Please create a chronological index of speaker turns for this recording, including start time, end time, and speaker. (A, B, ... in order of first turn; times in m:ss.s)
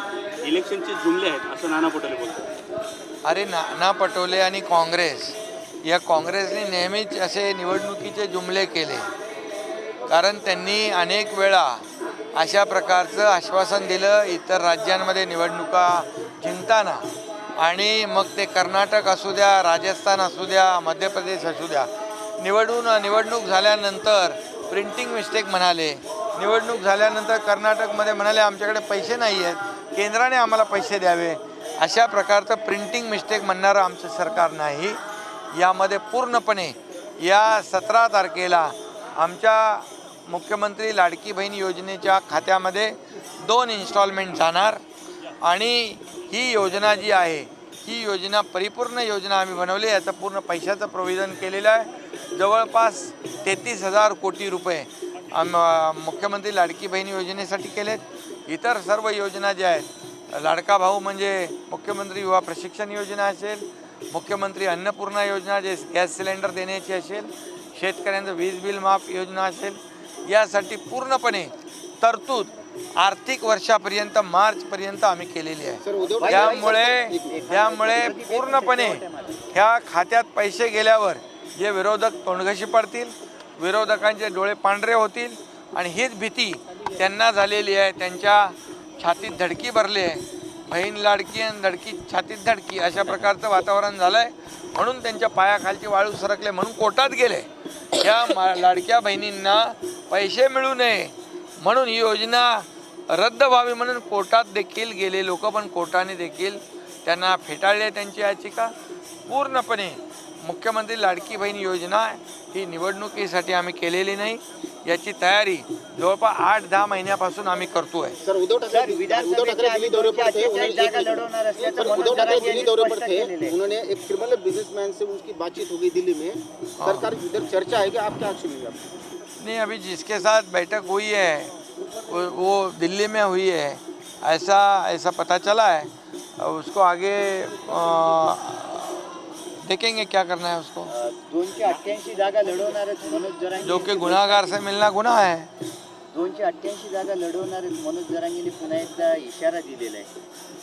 0:00.4-0:02.5 A
0:03.2-0:09.1 B
0:10.1-0:17.0 B
0:17.6-0:35.0 B
0:35.5-0:44.8 B
0:45.4-1:37.5 B
1:15.8-1:17.4 C
1:16.2-1:19.4 D
1:38.0-1:48.7 B
1:49.3-1:58.2 B
1:58.2-2:08.9 C
1:58.7-2:03.6 D
2:06.8-2:07.1 B
2:09.4-2:11.5 B
2:12.1-2:20.9 B
2:20.9-2:24.5 D
2:23.6-2:25.5 B
2:26.1-2:30.1 D